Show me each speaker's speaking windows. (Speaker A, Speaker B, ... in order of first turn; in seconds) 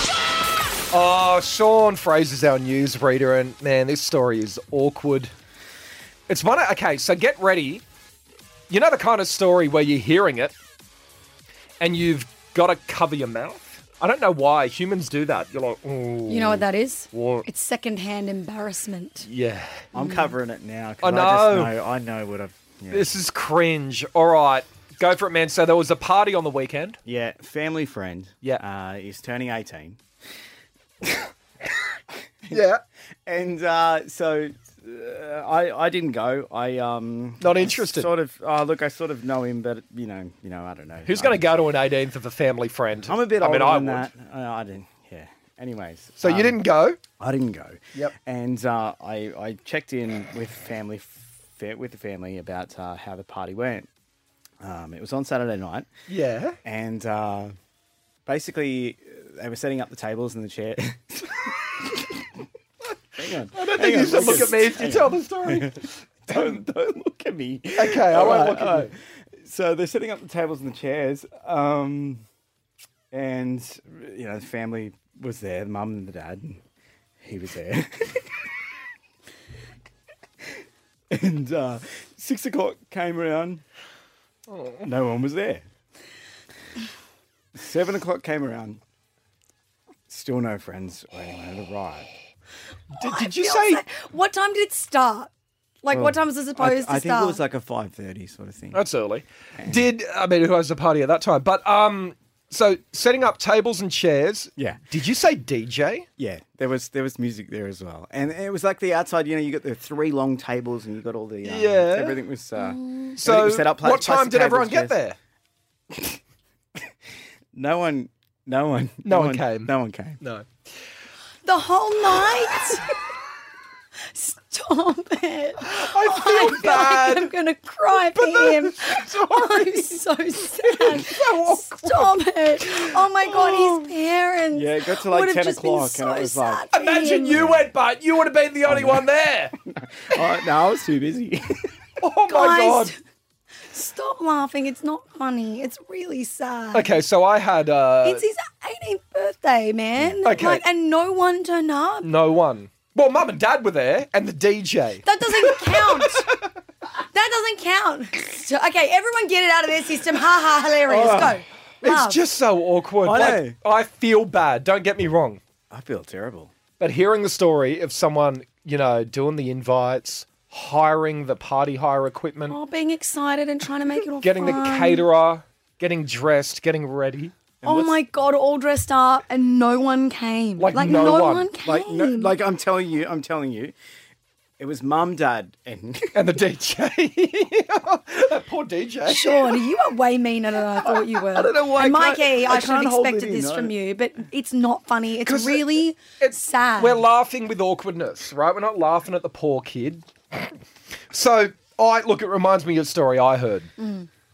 Speaker A: 0.9-5.3, 6.3-7.8, 8.7-10.5, 11.8-17.4, 19.3-19.9, 21.0-21.8, 22.9-27.0, 32.5-32.8, 37.4-38.1, 41.0-44.1, 46.2-47.0, 56.1-56.6, 63.5-66.6, 67.8-68.9, 84.5-84.9, 92.9-93.8, 98.7-106.1, 111.4-112.2, 113.2-115.2, 119.0-120.5, 125.6-127.3, 127.9-133.8, 136.7-139.5, 142.0-142.9, 146.7-148.2, 150.2-150.6, 152.0-156.4, 161.8-165.4, 166.8-172.6, 174.2-177.3, 180.6-181.5, 186.1-189.6, 195.2-195.7, 196.2-200.6, 201.1-203.7
Speaker B: 16.3-19.3, 19.9-20.3, 93.0-95.3, 95.8-97.4, 112.6-113.2, 121.5-122.9, 124.1-137.5, 142.3-143.0, 143.7-146.9, 148.0-152.1, 155.0-156.3, 157.0-162.2, 172.5-175.1, 177.6-182.4, 189.1-197.0, 203.8-204.1
Speaker C: 19.9-23.2, 27.1-30.0, 31.0-31.3, 32.4-32.7, 33.3-41.5, 43.0-46.6, 47.2-53.9, 54.6-55.9, 56.6-57.5, 58.3-62.3, 63.1-72.2, 73.1-76.6, 77.2-78.3, 81.1-83.6, 84.8-85.7, 87.5-88.8, 90.1-92.1, 95.9-98.8, 99.6-99.9, 104.6-104.8, 106.2-115.0, 115.9-116.2, 117.5-120.2, 134.5-136.7, 137.2-137.7, 138.7-139.1, 139.8-141.4, 160.9-161.4, 163.0-163.6, 165.7-166.5, 177.6-178.0, 181.6-183.8, 184.6-186.3, 190.9-193.7